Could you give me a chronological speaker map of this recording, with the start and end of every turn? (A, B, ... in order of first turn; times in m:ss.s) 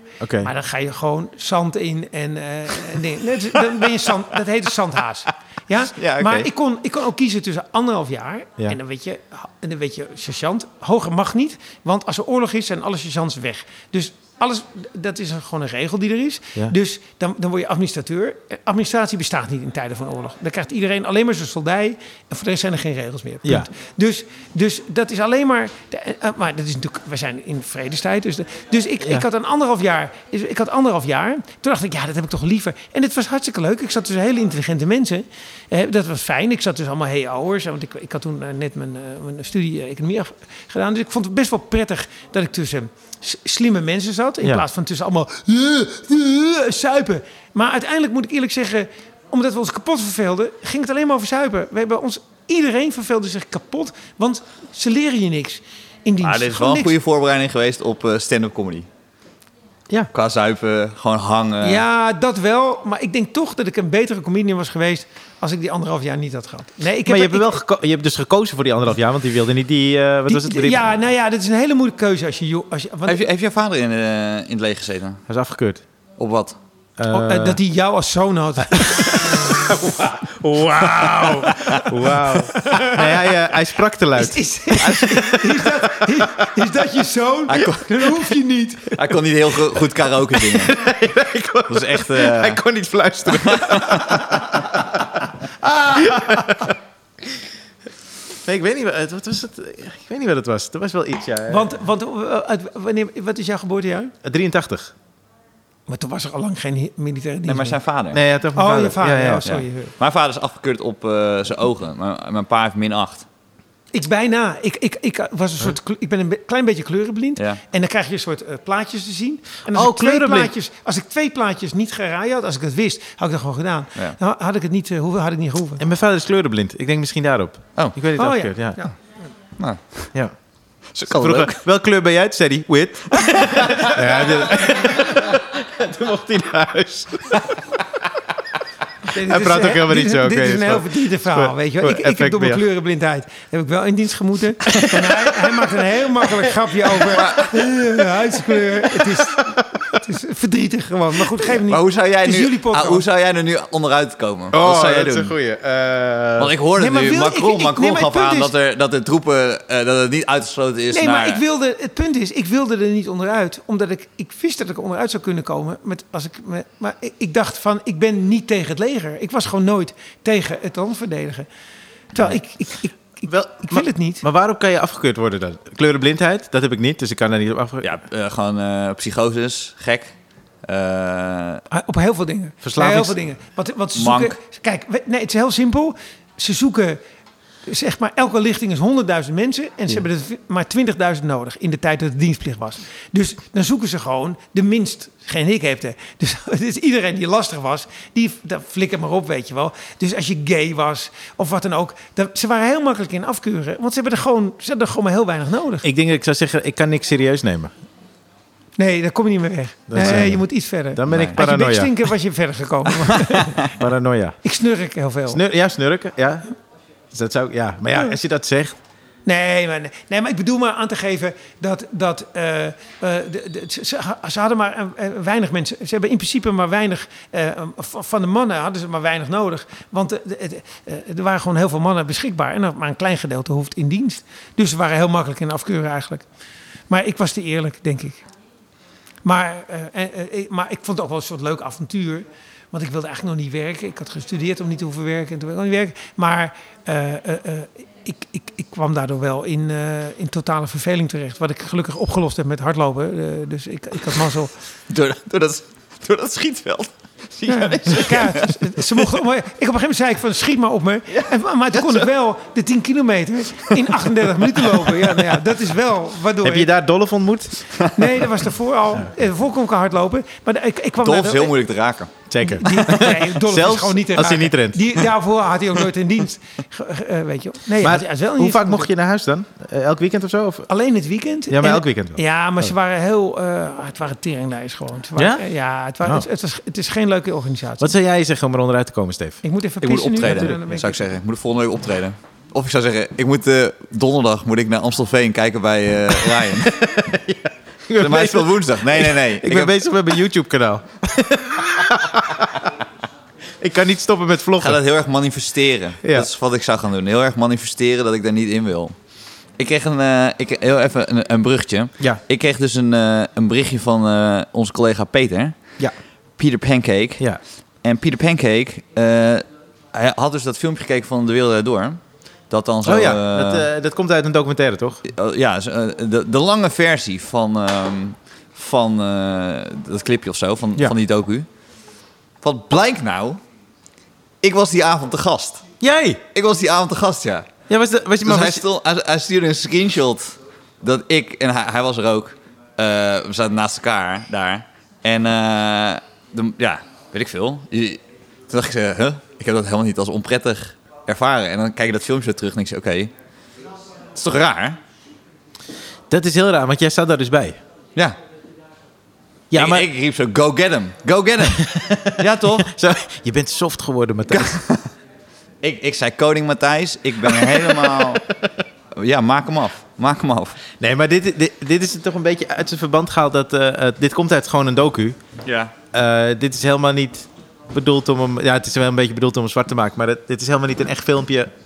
0:00.2-0:00.5 A
0:00.4-0:56.9 B
0:06.0-0:06.5 C
0:56.2-0:58.9 C
1:00.1-1:01.8 C
1:01.6-1:07.5 B
1:07.1-1:10.9 A
1:10.3-1:13.2 B
1:13.1-1:15.2 C
1:15.3-1:15.8 A
1:16.2-1:16.6 C
1:17.0-1:17.6 A
1:17.1-1:19.7 B
1:18.9-1:26.5 A
1:21.2-1:21.9 C
1:22.6-1:23.0 B
1:24.2-1:29.0 B
1:24.8-1:25.2 C
1:27.5-1:28.3 C
1:28.9-1:30.9 C
1:30.4-1:36.8 A
1:31.7-1:32.6 C
1:33.3-1:34.2 C
1:38.4-1:41.7 A
1:41.5-1:44.1 B
1:44.2-1:44.9 A
1:45.9-1:47.8 B
1:47.5-1:48.2 C
1:48.1-1:49.4 A
1:48.6-1:49.9 B
1:49.4-1:53.3 C
1:53.9-2:05.8 B
1:59.7-2:00.5 A
2:05.8-2:08.8 A
2:08.2-2:08.9 B
2:09.6-2:10.2 C
2:10.9-2:17.6 A
2:11.0-2:11.5 C
2:13.1-2:14.0 C
2:19.1-2:33.0 B
2:19.2-2:22.6 A
2:24.7-2:25.1 A
2:26.9-2:27.6 C
2:31.7-2:35.3 C
2:34.5-2:36.5 A
2:36.4-2:41.4 C
2:36.8-2:38.5 B
2:40.9-2:51.5 B
2:52.1-2:54.2 B
2:52.2-2:52.4 A
2:53.2-2:57.8 A
2:57.8-3:01.6 C
3:01.7-3:07.0 B
3:02.6-3:03.2 A
3:04.0-3:04.4 C
3:07.6-3:25.9 B
3:25.8-3:27.7 A
3:28.8-3:33.6 B
3:29.9-3:31.9 A
3:31.1-3:31.4 C
3:33.6-3:34.4 A
3:34.4-3:35.4 B
3:35.3-3:36.6 A
3:37.1-3:38.8 A
3:39.2-3:56.3 B
3:56.9-3:58.3 B
3:59.2-4:14.5 B
4:14.9-4:19.1 C
4:17.5-4:26.7 B
4:26.4-4:27.7 A
4:27.9-4:31.6 B
4:31.0-4:33.1 C
4:32.3-4:34.9 A
4:32.4-4:38.9 B
4:37.8-4:40.7 A
4:40.7-4:47.9 B
4:41.5-4:42.7 A
4:45.2-4:45.4 A
4:47.8-4:50.6 A
4:49.4-4:51.0 B
4:49.8-4:56.7 C
4:56.2-5:02.7 A
4:58.0-4:59.7 C
5:03.6-5:04.8 A
5:04.6-5:09.0 C
5:06.0-5:06.3 A
5:09.6-5:15.8 C
5:16.4-5:23.7 C
5:22.8-5:25.0 A
5:25.0-5:31.5 C
5:32.4-5:33.4 C
5:34.4-5:35.7 C
5:35.8-5:36.2 A
5:36.3-5:37.5 C
5:37.7-5:38.6 A
5:38.2-5:53.1 C
5:54.2-5:54.8 C
5:56.1-5:57.6 A
5:59.5-5:59.9 A
5:59.5-6:02.7 C
6:01.5-6:04.5 A
6:04.3-6:04.9 C
6:05.6-6:08.2 C
6:07.2-6:08.2 A
6:09.0-6:10.6 C
6:10.8-6:15.2 A
6:15.4-6:15.7 C
6:15.9-6:21.5 A